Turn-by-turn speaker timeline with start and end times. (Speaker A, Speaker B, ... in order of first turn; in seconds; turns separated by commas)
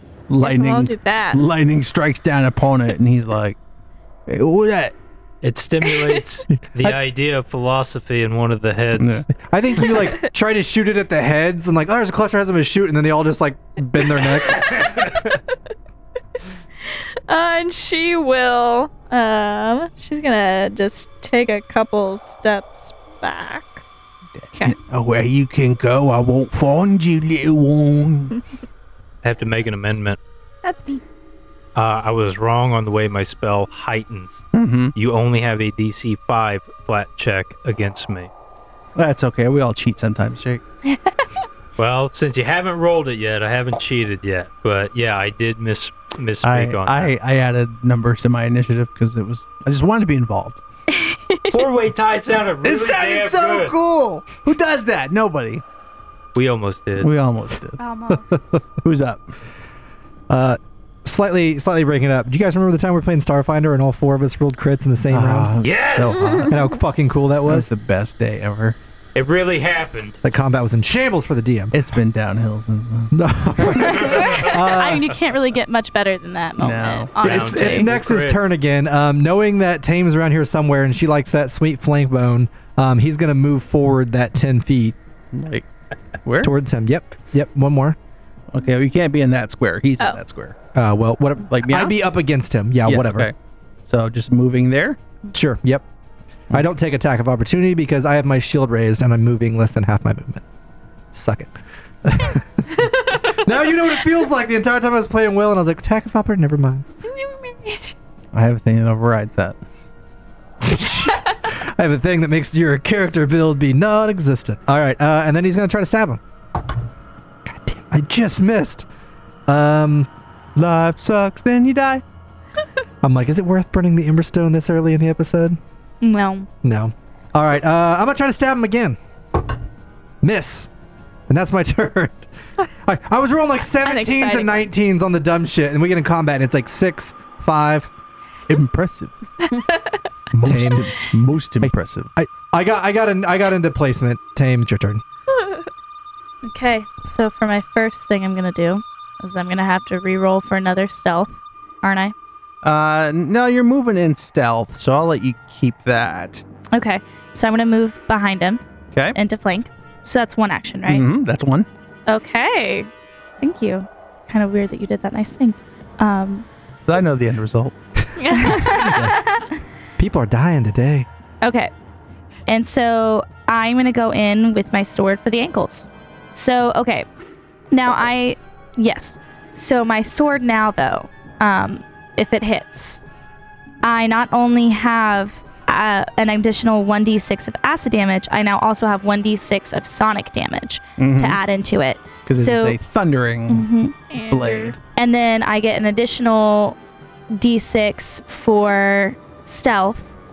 Speaker A: 0.3-3.6, Speaker B: 0.4-1.4, Speaker A: 4.3-4.9, Speaker C: 5.4-9.3, Speaker D: 6.6-7.0, Speaker A: 8.9-9.2, Speaker D: 9.4-14.7, Speaker B: 10.0-10.3, Speaker C: 14.8-15.3, Speaker B: 16.9-23.8, Speaker A: 24.4-28.4, Speaker C: 29.2-30.2, Speaker B: 30.6-31.0, Speaker C: 31.7-34.4, Speaker A: 34.5-34.9, Speaker C: 34.9-38.3, Speaker A: 38.9-40.6, Speaker C: 41.8-47.1, Speaker A: 46.4-50.6, Speaker B: 50.9-51.6, Speaker C: 51.5-53.7, Speaker A: 52.6-55.6, Speaker C: 56.3-57.1, Speaker A: 57.0-57.8, Speaker E: 57.8-58.5, Speaker A: 58.8-59.3, Speaker D: 60.3-65.5, Speaker A: 65.1-66.6, Speaker C: 65.6-66.4, Speaker D: 66.5-67.7, Speaker A: 67.5-68.8, Speaker C: 69.1-70.3, Speaker D: 70.2-71.7, Speaker A: 71.7-74.2, Speaker D: 73.1-75.2, Speaker E: 74.0-77.9, Speaker C: 74.1-74.6, Speaker A: 76.6-77.8, Speaker C: 77.2-78.5, Speaker D: 77.4-85.0, Speaker A: 85.3-85.7, Speaker A: 86.2-86.5, Speaker D: 86.4-88.0, Speaker A: 88.5-90.5, Speaker D: 90.7-93.3, Speaker A: 91.5-92.0, Speaker A: 92.8-93.3, Speaker A: 93.9-95.0, Speaker D: 95.3-95.8, Speaker D: 96.5-100.4, Speaker D: 101.1-106.8, Speaker B: 102.8-103.4, Speaker B: 107.0-107.9, Speaker A: 108.3-109.6, Speaker D: 110.6-116.2, Speaker D: 117.5-118.9, Speaker D: 119.5-120.1, Speaker A: 120.5-122.0, Speaker D: 123.0-125.6, Speaker E: 126.0-126.5, Speaker D: 126.6-129.0, Speaker D: 130.2-130.7, Speaker D: 131.3-132.3, Speaker D: 132.8-137.9, Speaker B: 133.8-134.6, Speaker A: 138.5-139.2, Speaker B: 139.5-140.0, Speaker A: 140.3-142.1, Speaker D: 140.4-140.9, Speaker D: 141.6-145.0, Speaker B: 145.3-145.7, Speaker E: 146.4-152.1, Speaker A: 152.6-156.4, Speaker E: 156.7-158.6, Speaker E: 159.1-161.1, Speaker A: 160.9-161.7, Speaker E: 162.1-162.9, Speaker E: 163.4-166.4, Speaker A: 166.8-167.7, Speaker B: 168.2-168.9, Speaker E: 168.3-169.6, Speaker D: 170.0-171.1, Speaker E: 171.4-171.7, Speaker E: 172.5-177.1, Speaker E: 177.7-183.0, Speaker E: 183.8-192.8, Speaker A: 191.0-191.4, Speaker A: 192.2-193.7, Speaker E: 193.5-193.9, Speaker B: 194.1-194.8, Speaker A: 194.3-194.8, Speaker E: 194.9-196.8, Speaker E: 197.3-200.1